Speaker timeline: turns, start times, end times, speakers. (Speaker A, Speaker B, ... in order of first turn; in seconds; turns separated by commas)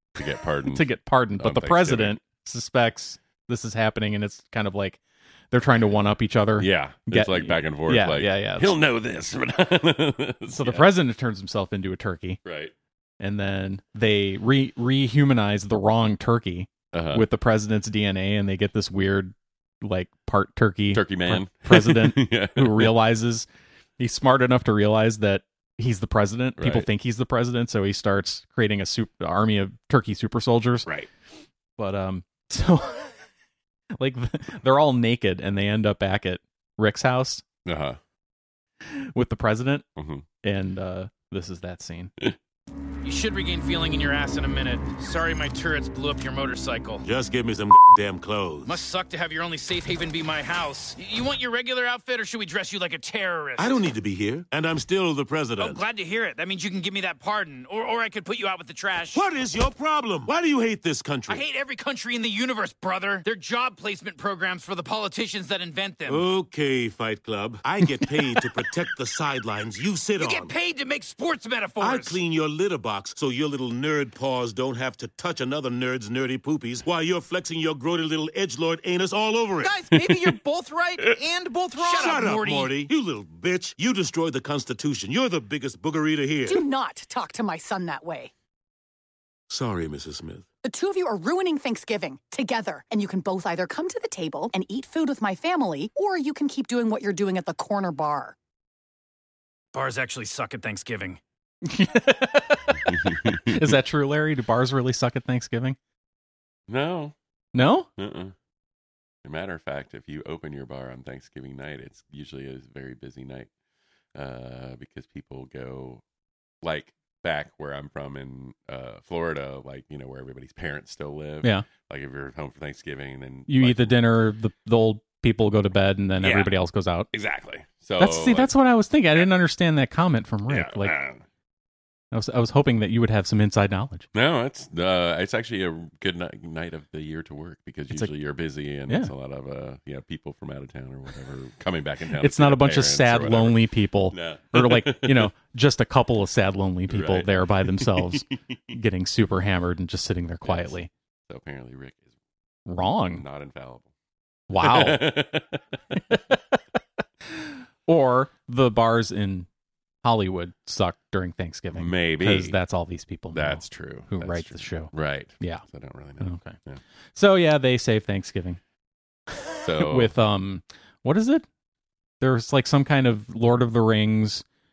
Speaker A: 0.2-2.2, Speaker B: 0.7-5.0, Speaker B: 5.5-8.8, Speaker A: 6.6-10.9, Speaker B: 10.5-12.4, Speaker A: 12.4-12.7, Speaker B: 13.2-23.5, Speaker A: 16.9-17.2, Speaker A: 20.9-23.0, Speaker B: 24.0-30.9, Speaker A: 26.6-26.9, Speaker B: 31.8-33.1, Speaker B: 34.0-37.4, Speaker A: 37.6-38.0, Speaker B: 38.9-39.9, Speaker A: 40.0-40.2, Speaker B: 40.4-42.1, Speaker C: 43.0-47.0, Speaker D: 47.0-48.8, Speaker C: 48.7-53.8, Speaker D: 53.6-55.8, Speaker C: 55.6-59.2, Speaker D: 59.1-61.5, Speaker C: 61.3-66.3, Speaker D: 66.0-70.5, Speaker C: 70.2-72.2, Speaker D: 71.8-79.9, Speaker E: 79.6-82.4, Speaker C: 81.8-82.8, Speaker D: 81.8-86.6, Speaker F: 86.5-88.3, Speaker D: 89.5-90.5, Speaker F: 90.6-98.3, Speaker C: 99.7-101.2, Speaker B: 101.7-105.8, Speaker A: 102.9-103.7, Speaker A: 106.7-107.2, Speaker B: 107.5-107.9, Speaker A: 108.0-108.3, Speaker A: 109.2-113.5, Speaker A: 114.2-116.0, Speaker A: 116.6-124.0, Speaker B: 123.5-127.1, Speaker A: 126.2-126.5, Speaker A: 127.1-128.5, Speaker B: 128.0-130.9, Speaker A: 130.5-131.2, Speaker B: 132.1-134.1, Speaker A: 134.1-145.3, Speaker B: 142.2-150.9, Speaker A: 146.9-148.6, Speaker A: 150.4-150.8, Speaker A: 151.3-152.1, Speaker B: 152.7-153.2, Speaker A: 153.1-153.9, Speaker B: 154.5-155.2, Speaker A: 154.6-155.6, Speaker B: 155.9-156.4, Speaker B: 157.3-159.5, Speaker B: 160.0-165.6, Speaker A: 161.7-162.6, Speaker A: 163.3-166.8, Speaker B: 166.2-166.6, Speaker B: 167.2-168.6, Speaker B: 169.4-171.5, Speaker A: 169.6-170.1, Speaker B: 172.2-174.4